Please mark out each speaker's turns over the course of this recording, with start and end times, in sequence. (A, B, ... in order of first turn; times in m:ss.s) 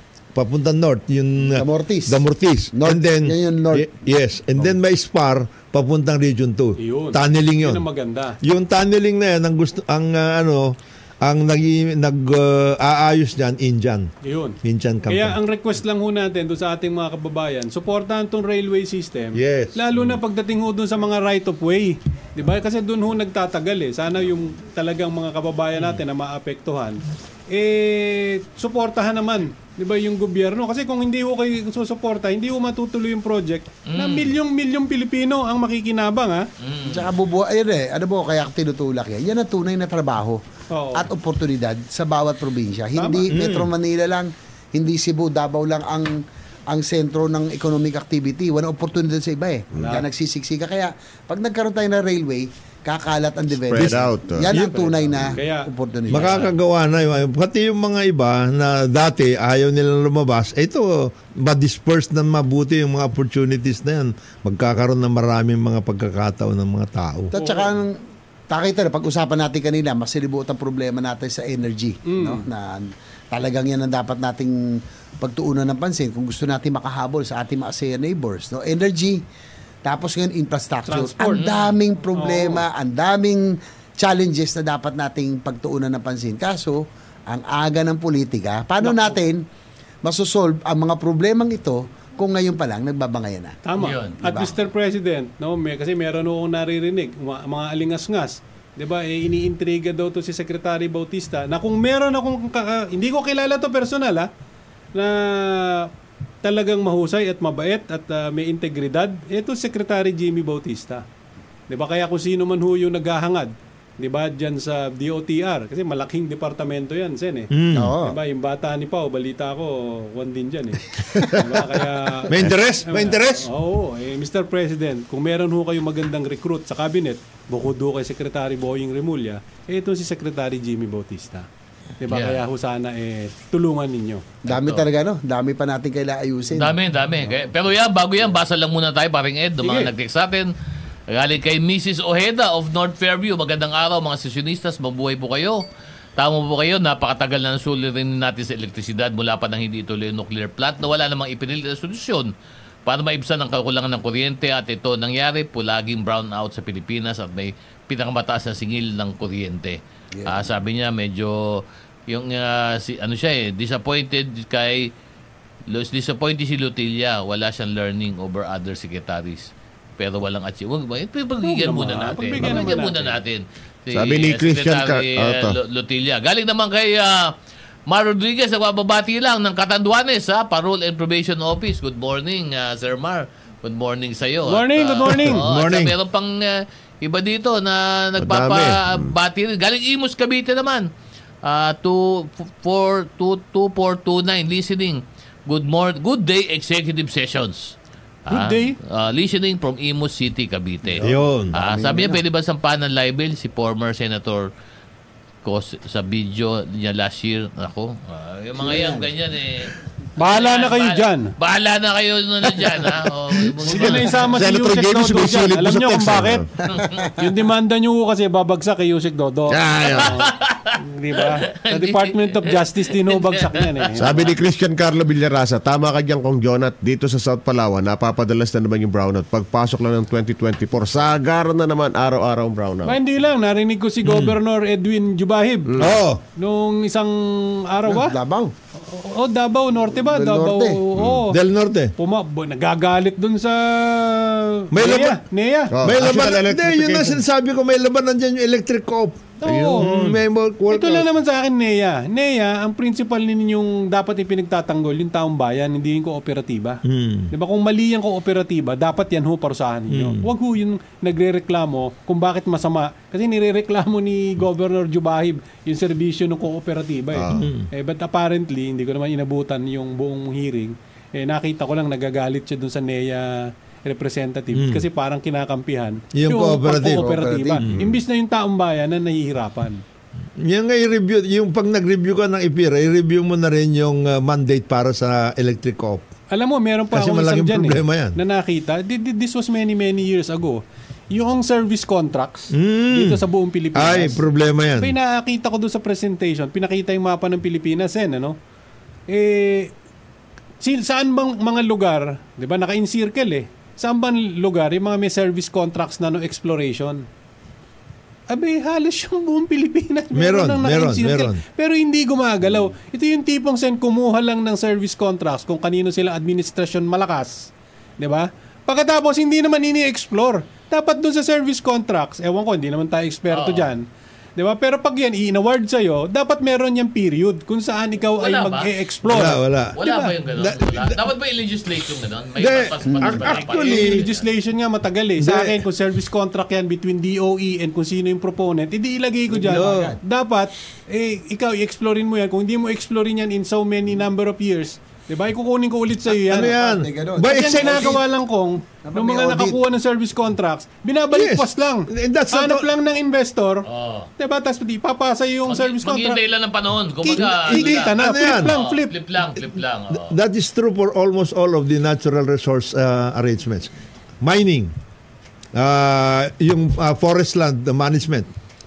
0:00.3-0:07.8 A
0:01.5-0:03.9 B
0:06.8-0:08.4 C
0:08.4-0:14.1 A
0:14.2-0:36.5 C
0:14.6-0:15.4 A
0:19.3-0:19.8 A
0:33.9-0:34.3 D
0:36.6-0:37.1 D
0:36.8-0:40.4 B
0:40.7-0:41.1 C
0:40.9-0:56.5 B
0:43.0-0:43.3 C
0:43.3-0:43.7 A
0:49.8-0:50.0 C
0:53.7-0:54.5 E
0:53.8-0:54.1 A
0:54.5-0:56.5 C
0:56.1-1:07.3 A
1:07.3-1:08.0 B
1:07.3-1:07.7 C
1:08.5-1:19.2 B
1:12.0-1:12.4 C
1:19.8-1:29.4 B
1:20.9-1:21.5 C
1:21.4-1:21.7 D
1:22.1-1:22.6 C
1:28.8-1:29.1 C
1:30.0-1:33.6 B
1:33.6-1:44.3 C
1:33.8-1:34.5 D
1:34.2-1:34.5 B
1:44.9-1:45.9 C
1:46.4-1:51.0 C
1:51.7-2:11.5 C
1:57.5-1:57.9 A
1:57.7-1:58.2 B
2:02.3-2:03.5 A
2:12.0-2:14.2 C
2:12.1-2:12.4 D
2:14.4-2:16.8 B
2:14.5-2:14.8 D
2:16.5-2:20.5 D
2:19.6-2:19.9 C
2:21.1-2:25.6 D
2:26.2-2:32.3 D
2:32.8-2:44.9 D
2:40.1-2:40.5 B
2:45.7-2:57.3 D
2:51.4-2:53.1 C
2:53.9-2:55.6 E
2:57.9-3:10.9 D
3:04.5-3:05.4 C
3:05.1-3:05.9 A
3:08.2-3:09.1 E
3:11.4-3:17.7 D
3:18.3-3:24.5 D
3:18.3-3:18.8 C
3:20.9-3:22.2 B
3:21.0-3:21.5 A
3:25.4-3:34.3 D
3:28.6-3:29.1 B
3:30.2-3:31.3 C
3:33.6-3:36.5 E
3:33.6-3:36.4 C
3:36.7-3:37.1 D
3:37.1-3:44.3 C
3:39.5-3:40.2 E
3:39.8-3:44.3 D
3:44.0-3:53.0 E
3:52.8-3:55.7 C
3:54.0-3:54.4 A
3:55.7-3:56.0 E
3:55.8-3:56.2 A
3:56.4-3:58.2 C
3:57.8-3:58.5 B
3:58.8-4:01.4 C
3:59.9-4:00.8 B
4:01.3-4:01.9 A
4:02.0-4:05.7 C
4:04.7-4:05.2 A
4:05.7-4:07.2 E
4:05.8-4:11.1 A
4:09.4-4:09.9 C
4:09.4-4:10.2 E
4:10.7-4:39.8 C
4:16.8-4:17.3 A
4:19.9-4:20.3 A
4:27.1-4:27.5 E
4:27.3-4:27.7 A
4:34.5-4:34.8 A
4:36.1-4:37.1 A
4:36.7-4:37.6 B
4:37.6-4:37.9 A
4:40.4-4:46.1 A
4:46.3-4:54.2 C
4:46.9-4:48.2 A
4:52.5-4:53.2 A
4:53.7-4:54.9 A
4:54.8-4:58.4 C
4:59.1-4:59.7 C
5:00.6-5:07.0 C
5:08.3-5:23.8 C
5:10.1-5:11.4 A
5:23.3-5:23.7 D
5:24.4-5:30.1 C
5:28.2-5:28.7 D
5:29.1-5:29.8 A
5:29.8-5:34.2 D
5:30.3-5:31.0 A
5:32.4-5:34.0 A
5:33.2-5:46.6 C
5:35.2-5:35.6 A
5:39.3-5:40.0 B
5:39.5-5:40.0 A
5:46.3-5:48.0 A
5:46.3-5:48.0 B
5:47.3-5:53.7 C
5:48.8-5:49.6 B
5:51.1-5:52.7 A
5:53.6-5:54.1 D
5:54.2-5:56.2 C
5:55.5-6:00.2 D
5:57.0-5:58.9 C
5:57.2-5:58.5 A
5:59.9-6:04.7 A
6:05.5-6:08.3 A